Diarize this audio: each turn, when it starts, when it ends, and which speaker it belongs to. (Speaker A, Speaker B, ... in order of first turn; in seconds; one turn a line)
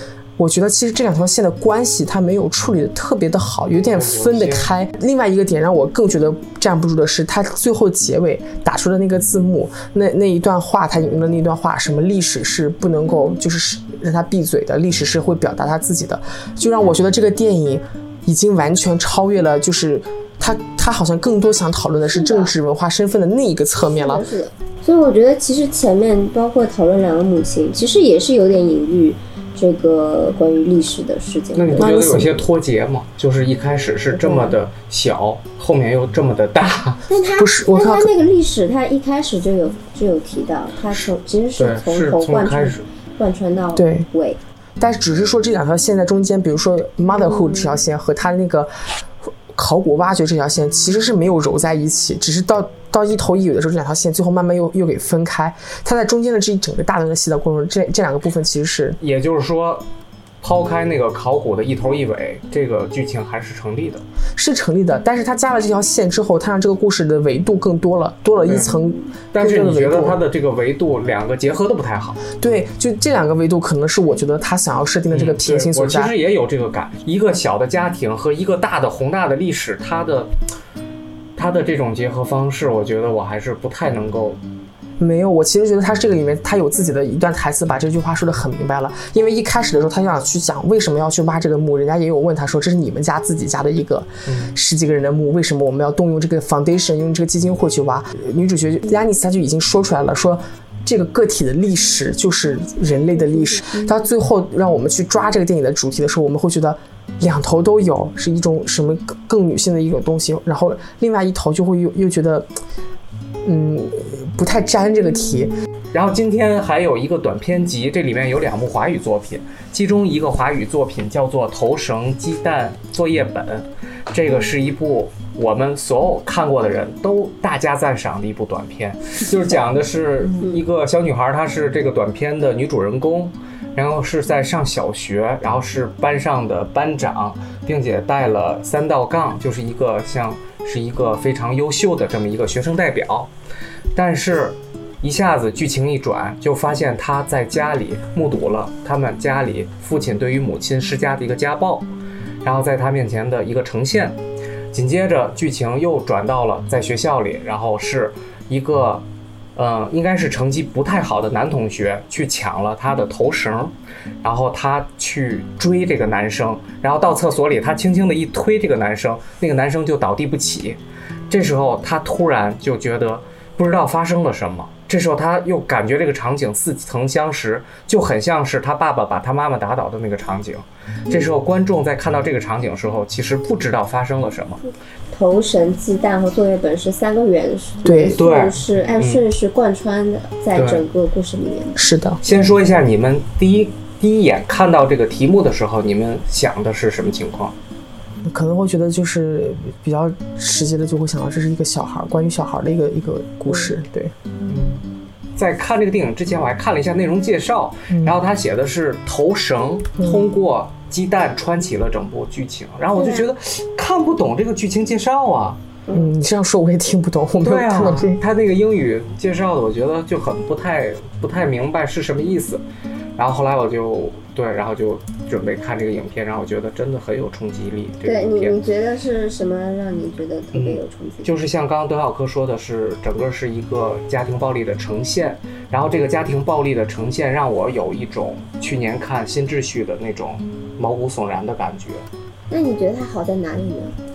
Speaker A: 0.4-24.3
Speaker B: 3.9-4.7
Speaker C: 22.1-22.5
Speaker C: 23.8-32.0
Speaker B: 31.5-37.0
Speaker A: 31.8-32.5
Speaker C: 34.1-34.5
Speaker C: 37.1-44.4
Speaker A: 37.4-38.1
Speaker B: 41.6-42.8
Speaker A: 43.8-44.1
Speaker A: 44.8-48.7
Speaker C: 47.3-47.8
Speaker A: 49.5-59.0
Speaker B: 59.0-59.8
Speaker B: 60.4-64.0
Speaker A: 64.4-70.2
Speaker B: 68.4-68.8
Speaker B: 69.3-72.2
Speaker A: 72.3-76.1
Speaker B: 75.1-80.3
Speaker B: 81.4-84.4
Speaker A: 85.0-112.5
Speaker B: 94.3-94.5
Speaker A: 113.4-115.5
Speaker B: 115.9-143.3
Speaker B: 143.9-151.9
Speaker B: 152.4-154.2
Speaker B: 154.7-159.0
Speaker B: 159.6-170.8
Speaker B: 171.3-184.6
Speaker C: 185.1-191.8
Speaker A: 187.8-188.2
Speaker B: 188.2-189.2
Speaker B: 190.5-190.8
Speaker A: 191.8-192.2
Speaker B: 192.2-197.5
Speaker A: 198.2-204.1
Speaker B: 204.5-204.8
Speaker B: 205.3-215.6
Speaker A: 207.9-208.1
Speaker A: 210.0-210.3
Speaker C: 213.0-213.2
Speaker A: 215.9-218.2
Speaker B: 217.4-222.6
Speaker B: 223.2-228.6
Speaker C: 228.0-231.3
Speaker B: 230.5-242.0
Speaker C: 242.5-243.9